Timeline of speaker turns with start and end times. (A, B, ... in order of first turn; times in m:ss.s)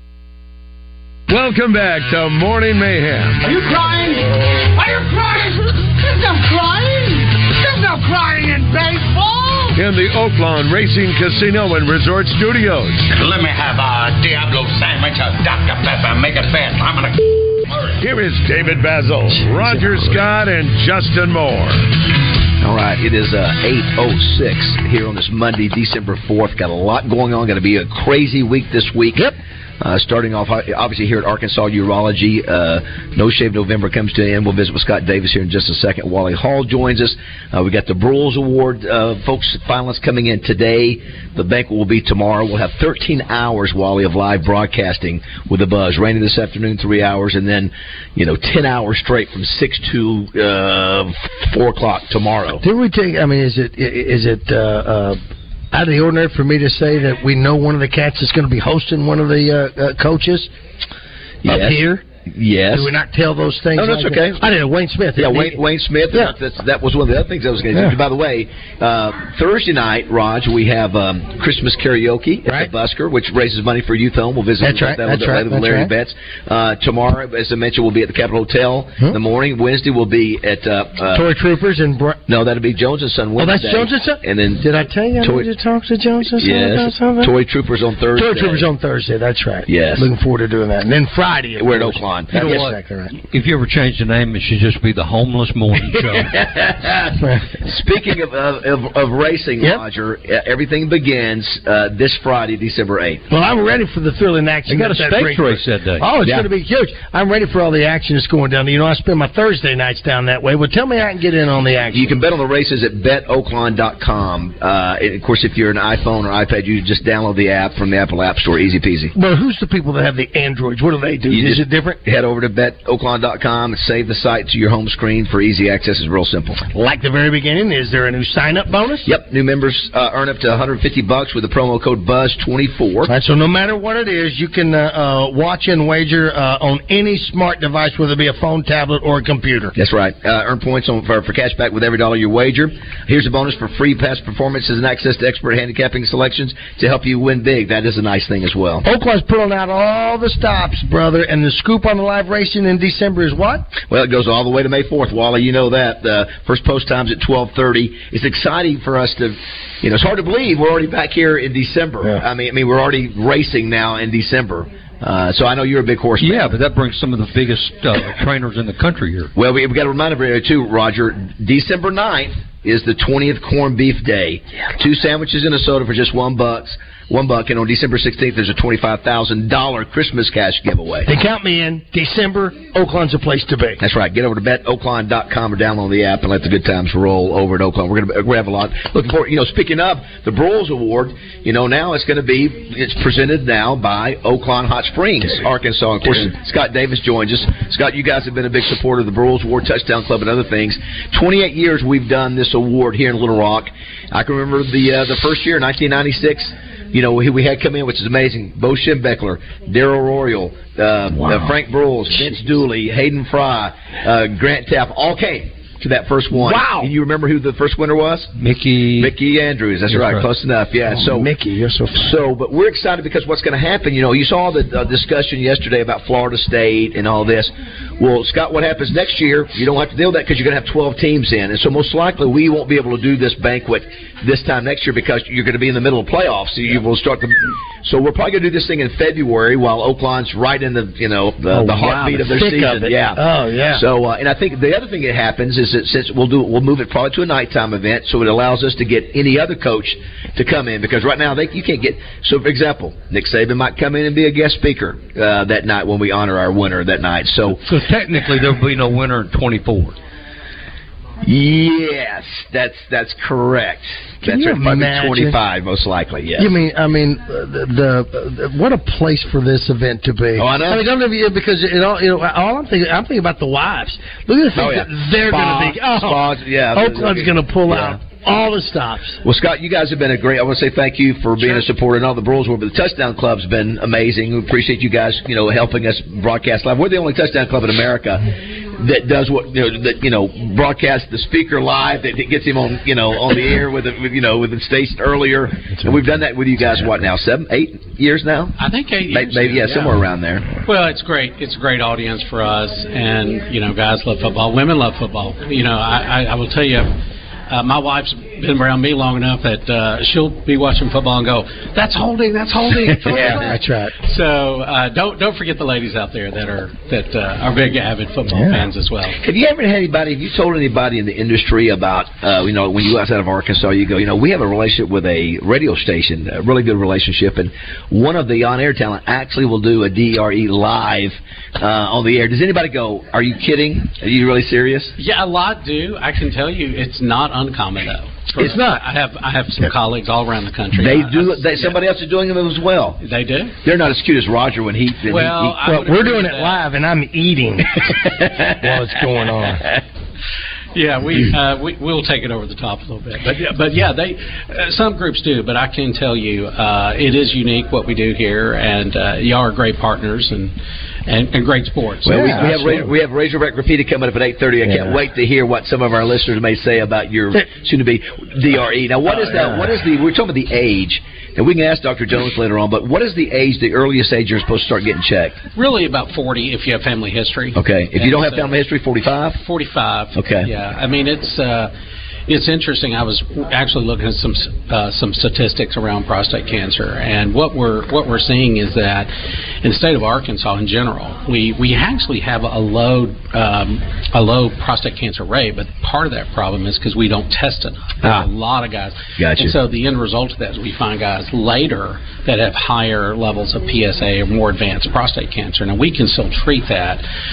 0:01.3-0:03.5 A
0:03.4-0:09.7 B
0:09.7-0:13.1 A
0:13.1-0:17.2 C
0:18.0-0:21.9 A
0:19.5-0:20.2 D
0:22.6-0:29.3 E
0:29.8-0:52.6 E
0:52.6-0:55.2 D
0:55.7-1:00.5 D
1:01.4-1:02.9 E
1:01.5-1:02.0 D
1:02.7-1:05.6 D
1:03.8-1:04.5 E
1:05.2-1:21.3 E
1:12.5-1:12.7 D
1:14.6-1:15.9 D
1:21.1-1:22.2 D
1:22.3-1:24.6 E
1:23.4-1:27.3 D
1:25.2-1:25.5 E
1:26.4-1:28.7 E
1:28.2-1:33.1 D
1:29.7-1:30.1 E
1:31.6-1:32.6 E
1:32.3-1:36.4 F
1:36.2-1:43.2 E
1:37.2-1:37.5 D
1:43.3-1:52.2 D
1:44.7-1:46.1 F
1:46.2-1:46.5 E
1:51.9-1:59.1 E
1:59.2-2:02.0 D
2:01.3-2:06.6 E
2:06.6-2:09.1 D
2:09.0-2:13.1 E
2:13.0-2:19.7 D
2:19.8-2:28.9 E
2:28.9-2:33.7 D
2:33.9-2:46.5 E
2:46.2-2:49.3 F
2:49.4-3:01.1 E
3:01.1-3:03.8 D
3:03.8-3:38.3 E
3:31.1-3:31.5 D
3:36.3-3:36.9 D
3:38.4-3:39.1 F
3:39.0-3:41.3 E
3:39.9-3:40.3 F
3:40.9-3:42.2 D
3:42.0-4:17.6 E
4:01.5-4:03.8 D
4:17.6-4:20.0 F
4:21.2-4:26.6 E
4:24.2-4:25.4 D
4:26.4-4:36.2 D
4:30.4-4:30.9 E
4:34.6-4:38.0 E
4:36.7-4:39.2 D
4:39.2-4:58.6 E
4:55.7-4:56.1 D
4:58.6-5:00.0 G
4:59.1-5:00.5 E
5:00.6-5:07.0 G
5:07.5-5:19.2 G
5:12.7-5:13.5 E
5:13.1-5:14.0 D
5:18.3-5:18.7 D
5:19.2-5:34.9 E
5:35.0-5:41.8 G
5:38.4-5:38.8 D
5:40.7-5:43.0 E
5:43.0-5:43.6 G
5:43.6-5:45.6 E
5:45.1-5:46.6 G
5:45.6-5:47.8 D
5:48.1-5:48.5 E
5:48.5-5:49.7 D
5:50.8-6:00.5 G
6:01.1-6:02.7 G
6:02.0-6:15.4 E
6:02.1-6:02.9 D
6:04.6-6:05.0 D
6:09.1-6:09.7 D
6:15.6-6:18.6 G
6:17.6-6:19.4 E
6:19.4-6:21.7 G
6:20.2-6:20.5 E
6:22.3-6:29.1 G
6:29.6-6:47.0 G
6:38.0-6:38.3 E
6:39.2-6:39.6 E